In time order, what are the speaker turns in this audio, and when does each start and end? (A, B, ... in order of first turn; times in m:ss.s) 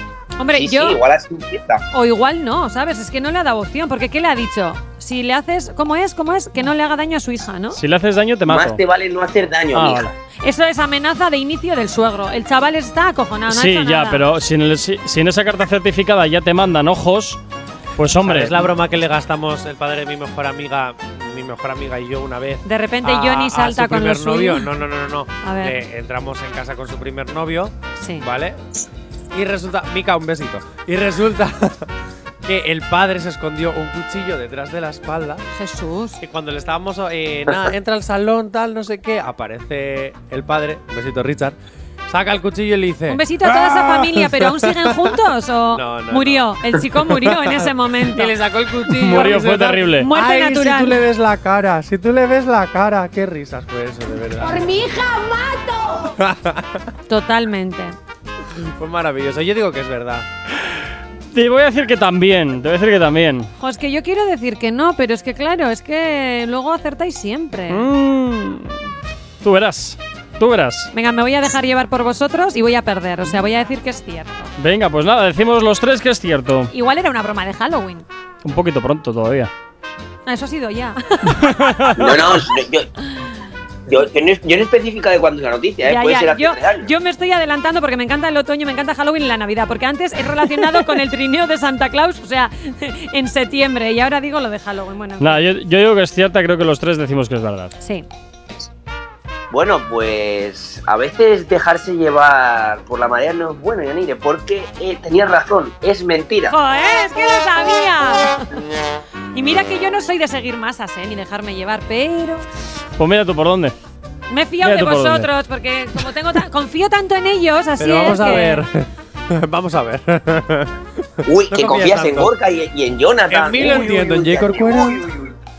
0:00.4-0:01.0 A
0:00.5-0:01.8 B
0:01.9-0:07.8 A
0:07.7-0:08.8 C
0:08.5-0:10.1 B
0:09.7-0:10.1 C
0:10.4-0:14.2 A
0:13.5-0:17.4 C
0:18.0-0:18.6 C
0:18.2-0:28.6 D
0:22.6-0:24.7 A
0:25.4-0:25.8 A
0:28.0-0:28.2 A
0:29.3-0:31.9 D
0:32.4-0:35.4 D
0:35.5-0:36.2 A
0:36.2-0:41.6 D
0:42.1-0:45.1 D
0:43.1-0:48.3 A
0:45.7-0:54.9 D
0:49.0-0:50.1 C
0:50.0-0:51.0 A
0:54.9-0:55.8 A
0:56.0-0:56.9 D
0:57.1-0:58.0 A
0:58.5-1:00.2 D
1:01.3-1:03.5 C
1:03.6-1:07.8 A
1:07.7-1:08.8 C
1:09.4-1:10.9 C
1:10.9-1:14.5 A
1:14.6-1:16.7 C
1:16.7-1:18.0 A
1:18.4-1:19.5 C
1:20.2-1:22.1 A
1:21.3-1:22.4 C
1:21.9-1:22.9 B
1:23.9-1:26.9 B
1:25.8-1:35.4 A
1:35.2-1:37.7 C
1:37.8-1:38.0 A
1:39.5-1:46.5 B
1:46.5-1:48.5 A
1:49.3-1:52.4 A
1:53.0-1:53.7 C
1:54.3-1:58.6 A
1:54.6-1:55.3 C
1:57.8-2:00.7 D
2:01.2-2:05.4 B
2:01.3-2:02.3 D
2:03.3-2:05.1 D